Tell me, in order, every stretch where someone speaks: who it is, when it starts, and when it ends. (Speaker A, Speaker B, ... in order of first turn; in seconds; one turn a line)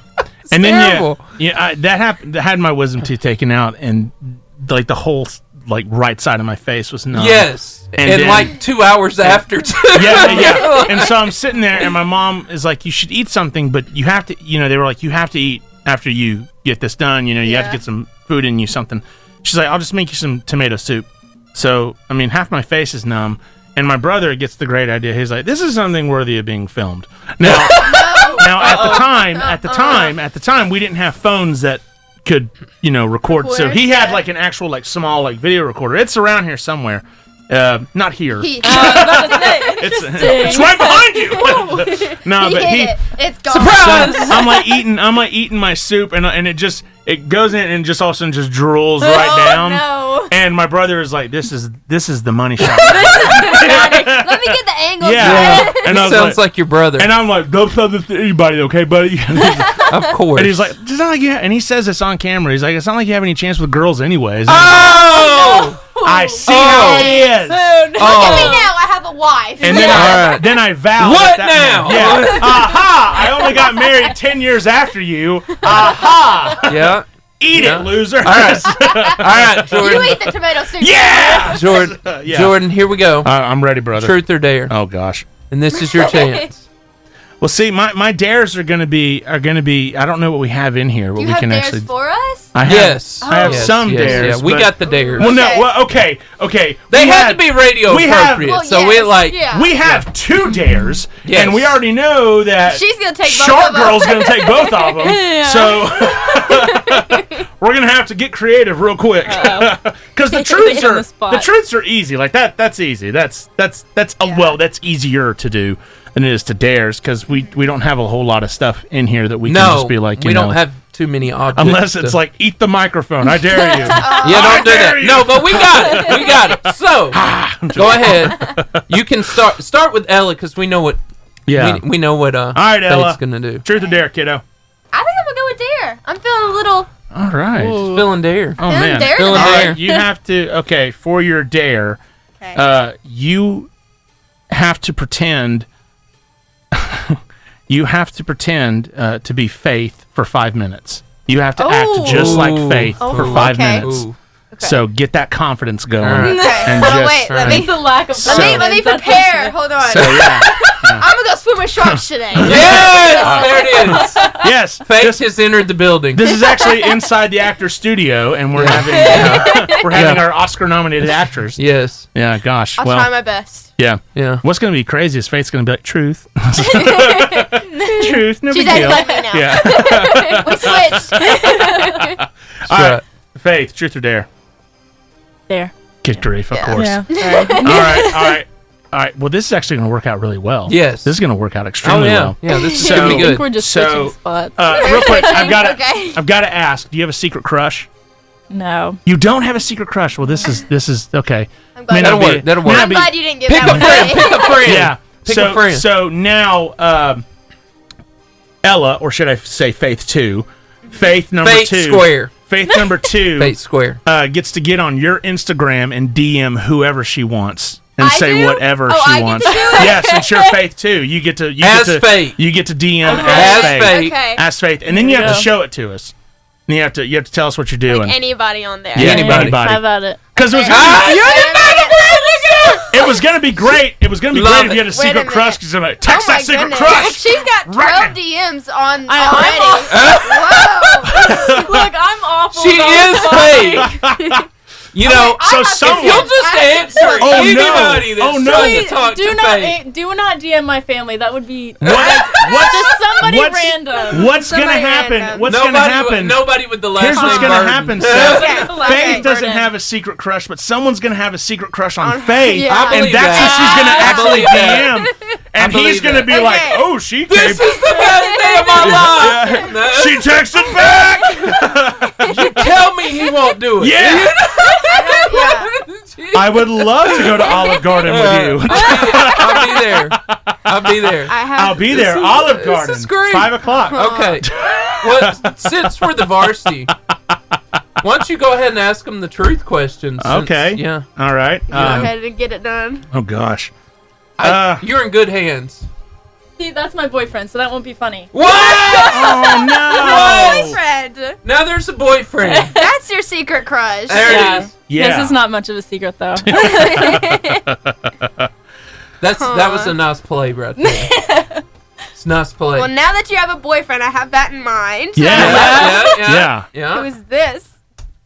Speaker A: 0.5-1.2
Speaker B: 0.5-8.6
Speaker A: 7.1-11.2
Speaker B: 9.2-56.4
Speaker C: 17.4-17.8
Speaker C: 27.4-30.2
Speaker C: 33.3-34.2
Speaker C: 38.4-39.8
Speaker D: 38.6-41.9
Speaker C: 40.8-44.6
Speaker A: 43.5-44.4
Speaker D: 44.1-44.5
Speaker D: 49.0-49.6
Speaker C: 49.0-50.3
Speaker C: 52.6-56.2
Speaker D: 52.8-54.2
Speaker A: 55.2-57.1
Speaker B: 57.0-65.2
Speaker C: 59.6-59.9
Speaker A: 59.9-60.6
Speaker A: 64.5-65.8
Speaker C: 64.6-65.8
Speaker D: 64.9-68.7
Speaker B: 66.0-67.7
Speaker A: 66.5-67.1
Speaker C: 66.5-67.3
Speaker A: 68.0-68.6
Speaker C: 68.0-70.4
Speaker B: 69.6-82.6
Speaker A: 69.7-72.8
Speaker C: 72.6-73.8
Speaker C: 75.6-76.6
Speaker A: 76.6-80.3
Speaker C: 78.9-81.6
Speaker A: 81.5-83.3
Speaker B: 83.2-85.3
Speaker A: 84.0-84.8
Speaker A: 85.5-86.7
Speaker C: 85.8-86.5
Speaker B: 87.4-91.9
Speaker C: 91.2-92.6
Speaker B: 92.5-98.6
Speaker A: 92.7-95.4
Speaker C: 93.2-95.7
Speaker A: 96.9-100.0
Speaker C: 98.4-99.8
Speaker B: 99.4-120.6
Speaker A: 101.2-101.8
Speaker C: 102.6-104.9
Speaker D: 104.8-106.6
Speaker C: 106.5-107.4
Speaker D: 109.2-109.8
Speaker D: 110.3-111.5
Speaker C: 114.2-114.6
Speaker A: 119.5-122.2
Speaker B: 121.5-126.6
Speaker D: 123.3-124.2
Speaker C: 123.9-124.9
Speaker A: 124.2-127.2
Speaker B: 127.1-128.8
Speaker A: 127.7-131.0
Speaker C: 128.3-128.6
Speaker B: 131.5-131.9
Speaker A: 131.5-133.6
Speaker B: 132.5-134.4
Speaker C: 134.9-136.9
Speaker B: 137.1-137.9
Speaker D: 137.6-138.1
Speaker A: 137.6-139.8
Speaker B: 138.6-142.0
Speaker C: 138.6-140.1
Speaker B: 142.6-143.7
Speaker B: 144.5-145.7
Speaker B: 146.7-154.1
Speaker C: 151.6-154.0
Speaker A: 152.1-154.2
Speaker C: 154.5-154.8
Speaker B: 154.6-158.7
Speaker A: 156.0-156.6
Speaker D: 156.2-159.7
Speaker C: 156.2-164.3
Speaker A: 157.3-157.6
Speaker A: 159.8-160.4
Speaker B: 159.9-161.1
Speaker B: 161.8-165.3
Speaker A: 162.4-164.3
Speaker A: 164.8-166.3
Speaker B: 166.1-171.6
Speaker C: 166.4-166.7
Speaker A: 168.6-170.2
Speaker D: 169.1-169.8
Speaker C: 169.2-169.9
Speaker A: 171.6-172.1
Speaker B: 172.1-173.1
Speaker C: 172.8-173.7
Speaker B: 173.8-184.3
Speaker A: 174.1-174.4
Speaker C: 176.6-182.2
Speaker D: 177.6-179.9
Speaker D: 181.1-182.1
Speaker A: 182.7-183.0
Speaker D: 185.5-185.7
Speaker B: 186.0-197.9
Speaker C: 186.5-188.0
Speaker D: 186.6-188.4
Speaker A: 190.7-191.2
Speaker A: 191.8-193.5
Speaker C: 192.5-193.1
Speaker D: 192.8-195.5
Speaker C: 194.7-196.2
Speaker D: 198.5-199.0
Speaker B: 199.1-207.2
Speaker C: 201.8-204.8
Speaker A: 201.9-205.9
Speaker B: 208.6-226.1
Speaker A: 211.4-212.3
Speaker A: 213.4-214.0
Speaker C: 218.0-220.4
Speaker D: 219.4-220.5
Speaker A: 221.6-222.4
Speaker A: 223.0-224.2
Speaker C: 223.1-224.5
Speaker D: 223.1-223.5
Speaker D: 224.9-225.5
Speaker B: 226.7-228.2
Speaker C: 227.9-229.2
Speaker B: 228.9-231.9
Speaker A: 229.0-229.6
Speaker D: 229.0-230.3
Speaker C: 230.4-233.2
Speaker A: 230.7-231.6
Speaker D: 231.6-232.8
Speaker B: 232.9-238.2
Speaker A: 234.3-234.9
Speaker C: 234.8-241.7
Speaker D: 239.1-244.1
Speaker A: 239.9-240.6
Speaker B: 241.1-241.9
Speaker A: 242.5-243.9
Speaker B: 243.8-244.4
Speaker C: 244.1-244.4
Speaker A: 244.9-249.8
Speaker C: 245.0-247.9
Speaker B: 245.1-246.4
Speaker B: 247.2-248.9
Speaker D: 248.4-254.3
Speaker B: 251.8-267.8
Speaker C: 251.9-253.2
Speaker C: 253.9-255.6
Speaker A: 255.5-258.6
Speaker D: 257.1-259.7
Speaker C: 258.2-259.3
Speaker C: 262.0-264.9
Speaker A: 262.7-264.9
Speaker D: 263.3-264.2
Speaker A: 265.6-266.4
Speaker C: 266.3-266.9
Speaker A: 267.3-271.6
Speaker C: 267.7-269.5
Speaker B: 268.8-272.6
Speaker C: 270.6-271.2
Speaker A: 272.2-281.4
Speaker B: 273.8-274.7
Speaker C: 274.8-275.7
Speaker B: 276.3-280.5
Speaker C: 277.4-278.0
Speaker C: 279.1-279.4
Speaker C: 281.3-282.5
Speaker B: 281.3-286.2
Speaker A: 281.9-286.9
Speaker C: 283.9-284.4
Speaker B: 286.9-287.4
Speaker A: 288.0-291.1
Speaker B: 290.2-292.1
Speaker C: 291.7-293.1
Speaker A: 291.7-292.1
Speaker B: 293.1-293.7
Speaker A: 294.4-295.9
Speaker B: 294.4-294.8
Speaker D: 296.6-298.3
Speaker A: 298.3-299.4
Speaker C: 298.4-301.4
Speaker B: 298.9-300.8
Speaker A: 300.0-300.6
Speaker A: 301.4-302.8
Speaker D: 302.4-302.7
Speaker C: 302.7-304.6
Speaker A: 304.1-304.7
Speaker D: 304.2-307.3
Speaker B: 304.9-305.4
Speaker B: 306.5-308.5
Speaker C: 306.6-307.6
Speaker A: 309.2-311.1
Speaker C: 309.4-310.0
Speaker D: 310.8-311.6
Speaker A: 312.2-312.9
Speaker C: 312.8-317.7
Speaker B: 315.2-316.7
Speaker D: 315.3-316.1
Speaker A: 315.3-317.1